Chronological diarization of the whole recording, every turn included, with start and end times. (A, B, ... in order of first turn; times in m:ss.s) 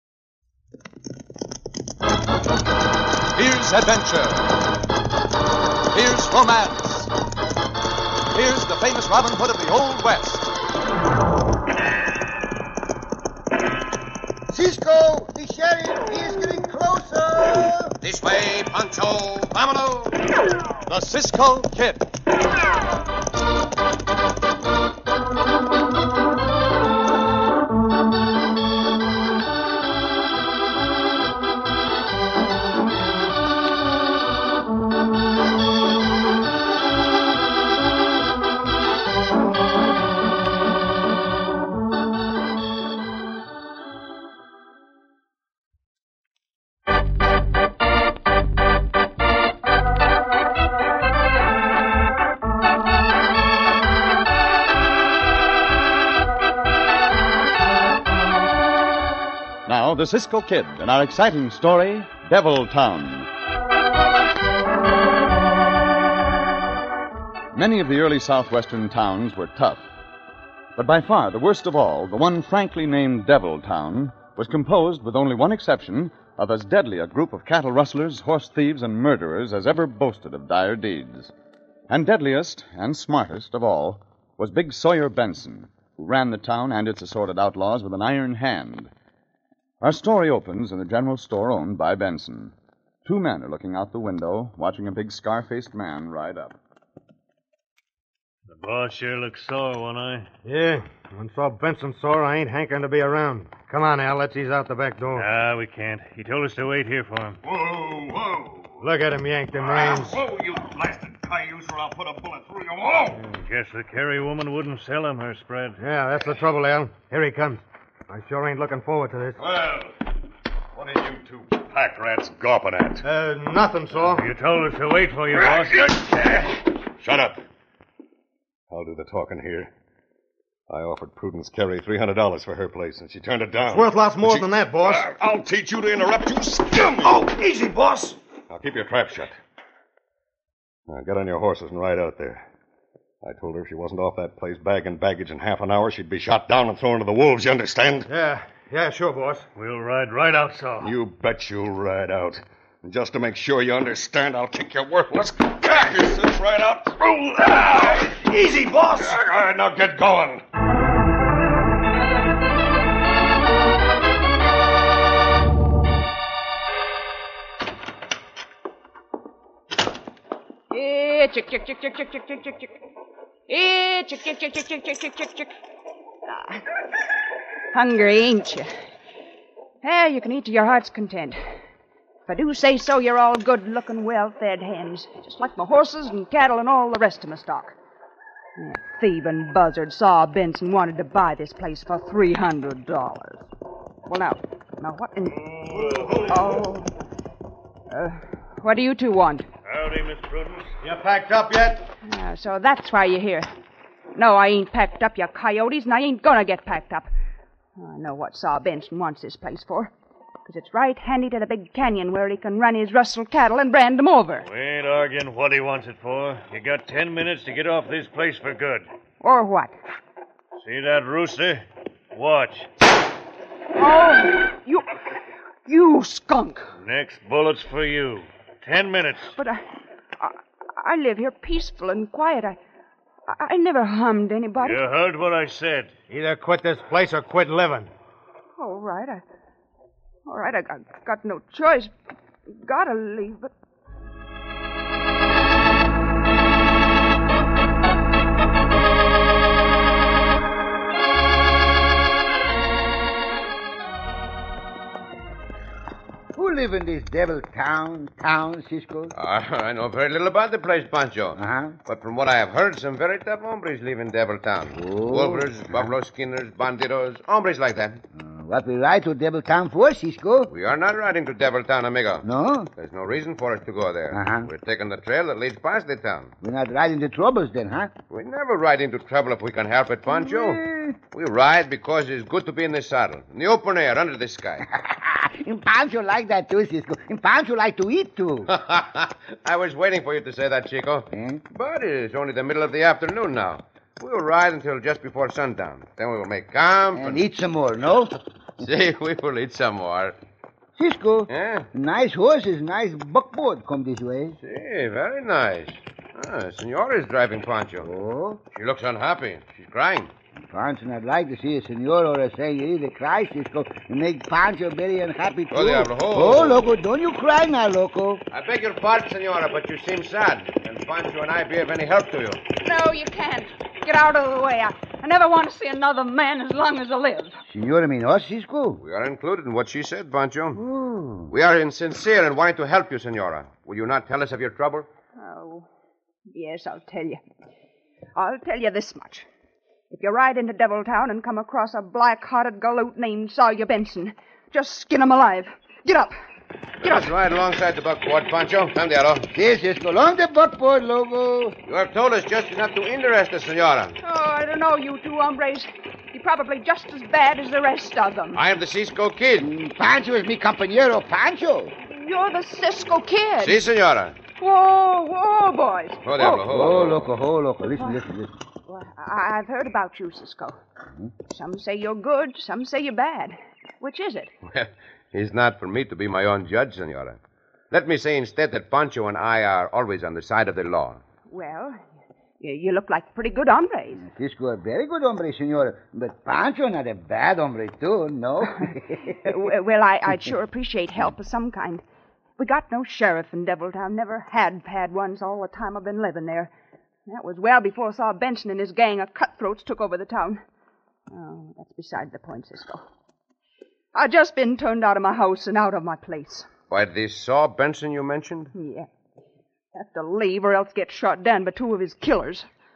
0:03.4-0:04.5 A
0:05.9-0:07.1 A
0:08.3-0:10.4 A
0:14.5-0:17.9 B
0:18.0-0:20.2 C
0:20.8-0:22.0 A
0:59.6-1:03.3 A
1:07.5-1:09.8 A
1:10.8-1:21.3 A
1:21.9-1:28.9 A
1:29.8-1:32.5 A
1:33.0-1:36.6 A
1:38.5-1:40.3 D
1:40.4-1:45.2 E
1:45.1-1:47.4 D
1:47.4-1:48.8 F
1:48.8-1:50.2 E
1:49.6-1:53.2 F
1:53.2-1:55.8 D
1:55.8-1:59.4 E
1:59.4-2:00.0 F
2:00.7-2:03.0 F
2:03.0-2:04.3 E
2:04.0-2:05.9 D
2:05.4-2:07.4 F
2:08.7-2:09.7 F
2:10.7-2:17.2 F
2:13.6-2:15.0 E
2:16.9-2:18.2 E
2:18.5-2:19.4 F
2:20.9-2:22.4 F
2:23.2-2:28.1 F
2:28.1-2:29.4 E
2:29.6-2:30.9 D
2:30.8-2:38.2 F
2:38.1-2:39.1 E
2:38.9-2:40.4 F
2:50.7-2:52.7 G
2:53.5-2:55.5 G
2:56.3-2:56.6 G
2:57.7-2:58.7 G
2:59.8-3:01.4 G
3:02.3-3:07.7 G
3:08.6-3:13.4 G
3:14.0-3:15.4 G
3:15.3-3:16.3 D
3:15.7-3:16.6 E
3:16.3-3:16.9 G
3:17.9-3:19.4 G
3:19.6-3:20.7 D
3:20.8-3:21.9 E
3:22.0-3:23.5 G
3:24.1-3:27.1 G
3:27.8-3:29.9 G
3:30.4-3:34.4 G
3:34.4-3:38.8 D
3:39.2-3:39.7 G
3:40.6-3:42.7 D
3:43.7-3:45.0 G
3:45.6-3:46.7 G
3:46.8-3:49.3 D
3:49.4-3:49.6 G
3:50.2-3:52.6 G
3:53.3-3:54.8 G
3:54.6-3:55.9 D
3:56.1-3:57.9 E
3:58.6-3:59.2 G
4:00.3-4:01.9 G
4:02.5-4:03.5 G
4:16.3-4:19.1 B
4:19.1-4:28.0 C
4:21.4-4:21.8 B
4:24.7-4:25.9 B
4:28.1-4:30.5 B
4:30.5-4:36.3 C
4:32.2-4:32.7 B
4:34.1-4:34.5 B
4:36.4-4:37.9 B
4:38.1-4:40.6 C
4:40.1-4:41.0 B
4:41.1-4:44.7 C
4:44.7-4:48.5 B
4:48.5-4:57.2 C
4:51.1-4:51.4 B
4:56.9-4:58.1 B
4:58.6-5:00.2 C
5:00.8-5:04.4 B
5:01.3-5:01.7 C
5:04.4-5:07.9 C
5:07.8-5:08.4 B
5:08.5-5:10.1 C
5:10.4-5:18.2 B
5:15.5-5:16.6 C
5:18.3-5:22.4 C
5:22.6-5:27.4 G
5:27.5-5:28.8 B
5:28.8-5:30.6 C
5:30.5-5:31.3 B
5:31.3-5:34.9 C
5:35.2-5:35.7 G
5:36.3-5:37.2 G
5:38.2-5:39.3 G
5:39.9-5:46.1 G
5:46.8-5:49.3 C
5:49.3-5:51.6 B
5:51.6-5:54.0 C
5:54.0-5:58.4 G
5:58.3-5:59.5 C
5:59.4-6:01.7 B
6:01.8-6:03.6 G
6:03.4-6:04.2 C
6:04.4-6:06.5 G
6:06.0-6:07.1 C
6:06.4-6:08.4 B
6:08.7-6:10.6 G
6:11.3-6:14.3 G
6:14.5-6:17.2 C
6:17.7-6:21.0 C
6:21.3-6:21.8 G
6:22.4-6:24.0 G
6:24.0-6:29.4 B
6:29.0-6:31.8 G
6:32.4-6:36.5 G
6:37.1-6:40.4 G
6:41.1-6:42.8 G
6:43.9-6:46.5 G
6:46.7-6:48.5 C
6:48.5-6:48.9 G
6:49.7-6:52.4 G